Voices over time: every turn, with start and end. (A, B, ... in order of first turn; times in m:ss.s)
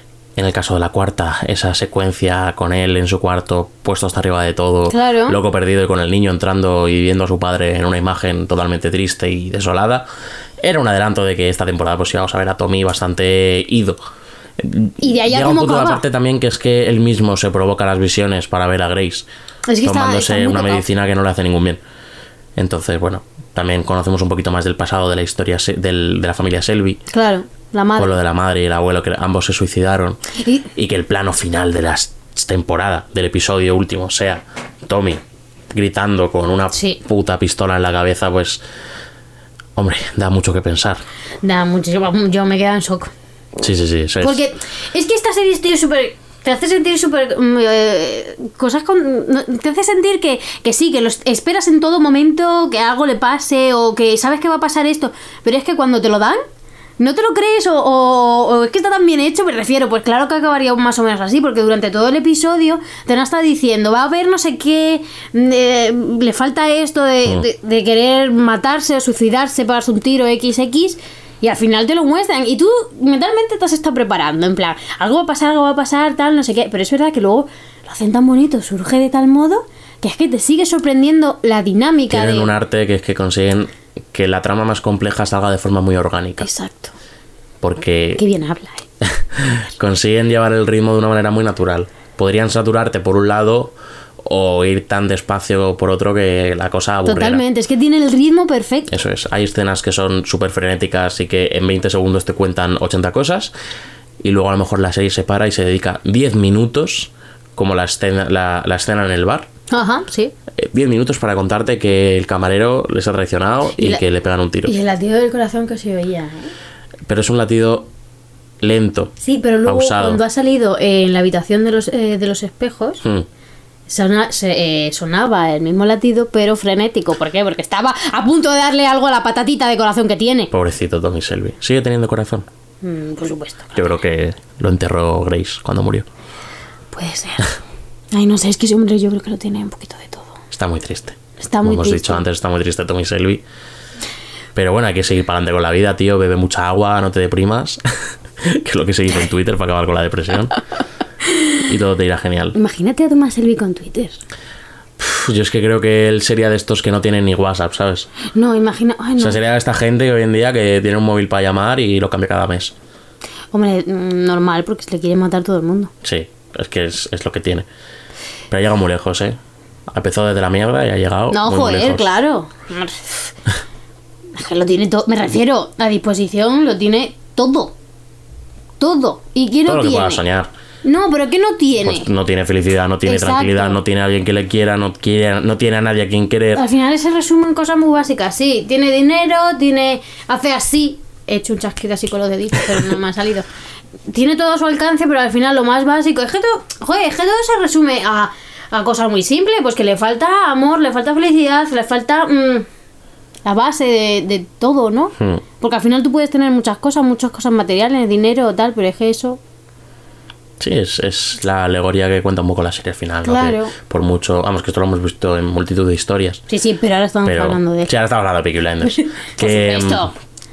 0:00.4-0:10.0 A
0:04.9-0:05.4 B
0:10.6-0:14.0 A
0:14.6-0:19.3 A
0:15.0-0:16.0 B
0:19.7-0:20.8 B
0:19.8-0:21.8 A
0:22.6-0:27.0 A
0:27.1-0:28.1 B
0:28.0-0:30.2 A
0:30.4-0:30.6 B
0:30.7-0:38.6 A
0:36.7-0:37.0 B
0:39.8-0:41.0 A
0:41.4-0:43.1 B
0:43.6-0:44.4 A
0:44.2-0:56.4 B
0:57.0-1:22.5 B
1:22.1-1:26.5 A
1:26.4-1:26.9 B
1:27.6-1:28.2 A
1:28.2-1:28.8 B
1:29.0-1:37.4 A
1:37.0-1:38.9 B
1:38.9-1:43.5 A
1:44.2-1:49.5 A
1:49.7-1:50.3 B
1:50.6-1:54.7 A
1:53.8-1:54.0 B
1:54.6-1:56.5 B
1:57.1-1:57.9 A
1:58.6-1:59.1 A
1:59.2-2:03.0 B
1:59.6-2:00.2 A
2:03.9-2:10.5 B
2:10.5-2:12.4 A
2:12.8-2:13.8 B
2:13.7-2:16.1 A
2:16.9-2:17.5 B
2:18.1-2:20.4 B
2:20.5-2:23.4 A
2:21.4-2:22.2 B
2:24.5-2:27.8 A
2:28.4-2:30.6 A
2:31.2-2:31.6 B
2:31.6-2:32.5 A
2:32.5-2:34.2 B
2:35.0-2:38.1 A
2:38.3-2:39.4 B
2:39.2-2:42.7 A
2:43.5-2:45.9 B
2:46.0-2:47.7 A
2:48.5-2:52.1 A
2:51.3-2:53.3 B
2:54.3-2:57.7 B
2:58.8-3:00.2 B
2:59.6-3:00.5 A
3:00.8-3:02.1 B
3:01.8-3:06.6 A
3:03.0-3:03.8 B
3:06.5-3:13.4 B
3:14.1-3:22.6 B
3:23.4-3:29.4 B
3:25.2-3:25.4 A
3:30.6-3:36.4 A
3:33.2-3:33.7 B
3:36.5-3:37.9 B
3:37.2-3:40.1 A
3:38.8-3:40.1 B